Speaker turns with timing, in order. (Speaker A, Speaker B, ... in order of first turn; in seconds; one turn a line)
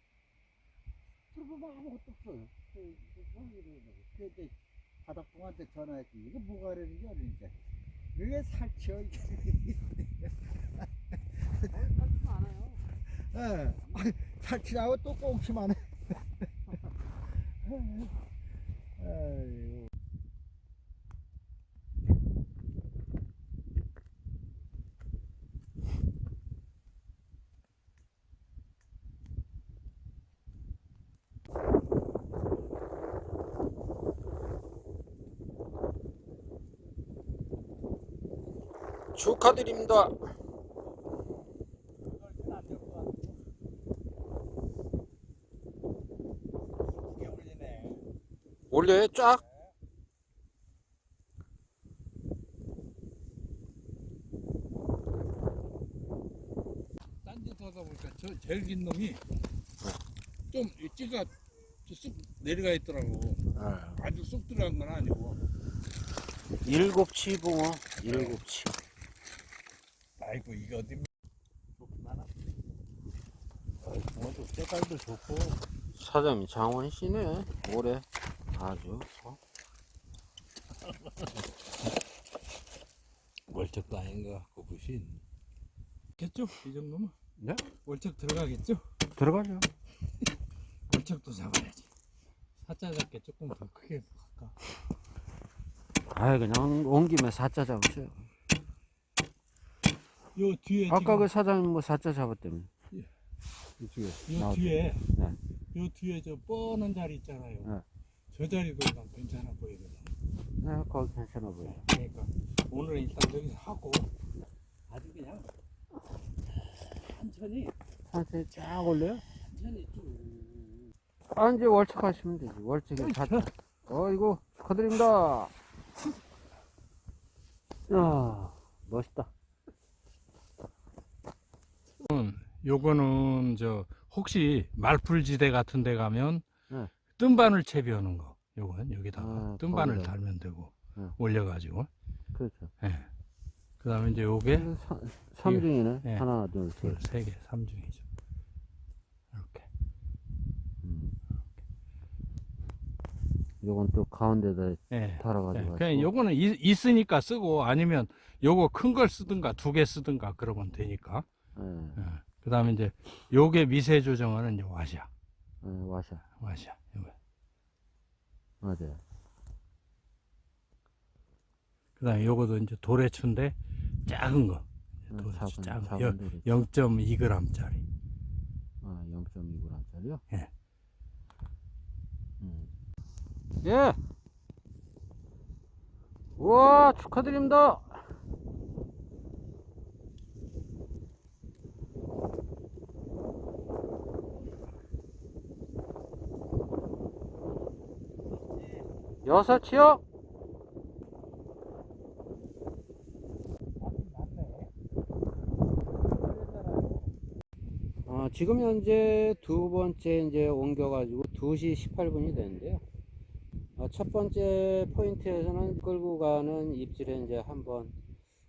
Speaker A: 1.3-4.5
Speaker A: 5.0-7.5
Speaker A: 8.2-10.1
Speaker B: 11.6-12.8
Speaker A: 13.2-15.9
Speaker A: 17.6-18.1
Speaker A: 19.0-19.9
Speaker B: 39.1-40.1
Speaker C: 42.1-43.4
Speaker C: 47.0-48.0
Speaker B: 48.7-49.4
Speaker C: 49.2-49.7
Speaker C: 57.2-59.2
Speaker C: 60.5-65.4
Speaker B: 63.5-64.0
Speaker B: 66.6-68.8
Speaker C: 68.0-68.4
Speaker C: 70.2-71.1
Speaker C: 71.8-72.3
Speaker C: 73.9-75.6
Speaker B: 76.0-79.4
Speaker C: 83.5-85.2
Speaker C: 86.2-87.1
Speaker B: 87.4-87.7
Speaker C: 87.8-88.8
Speaker B: 89.2-89.7
Speaker C: 90.9-91.9
Speaker C: 92.6-94.6
Speaker B: 96.1-98.2
Speaker C: 100.3-101.3
Speaker B: 100.9-102.7
Speaker B: 103.8-105.4
Speaker C: 104.3-105.0
Speaker C: 105.7-107.7
Speaker C: 108.3-110.2
Speaker B: 110.6-111.8
Speaker C: 111.9-114.1
Speaker C: 114.9-115.5
Speaker C: 116.9-117.8
Speaker B: 118.0-119.2
Speaker C: 119.4-120.9
Speaker B: 121.3-125.5
Speaker C: 123.0-123.5
Speaker B: 127.9-129.3
Speaker C: 132.0-136.5
Speaker C: 137.2-141.9
Speaker B: 139.2-140.2
Speaker B: 142.3-142.7
Speaker C: 142.8-143.1
Speaker C: 143.8-144.7
Speaker B: 144.5-147.0
Speaker C: 145.4-146.2
Speaker C: 146.8-148.1
Speaker C: 149.3-149.7
Speaker B: 150.8-151.2
Speaker B: 153.6-156.1
Speaker C: 154.9-161.3
Speaker B: 161.6-162.0
Speaker C: 162.0-165.1
Speaker B: 165.6-166.2
Speaker C: 166.4-167.2
Speaker B: 168.6-169.0
Speaker C: 172.0-177.8
Speaker B: 175.1-176.6
Speaker B: 178.8-180.2
Speaker B: 182.4-182.7
Speaker B: 183.6-184.0
Speaker B: 186.4-188.0
Speaker B: 199.2-200.0
Speaker C: 203.8-204.7
Speaker C: 206.0-207.1
Speaker B: 208.1-212.8
Speaker B: 213.8-217.9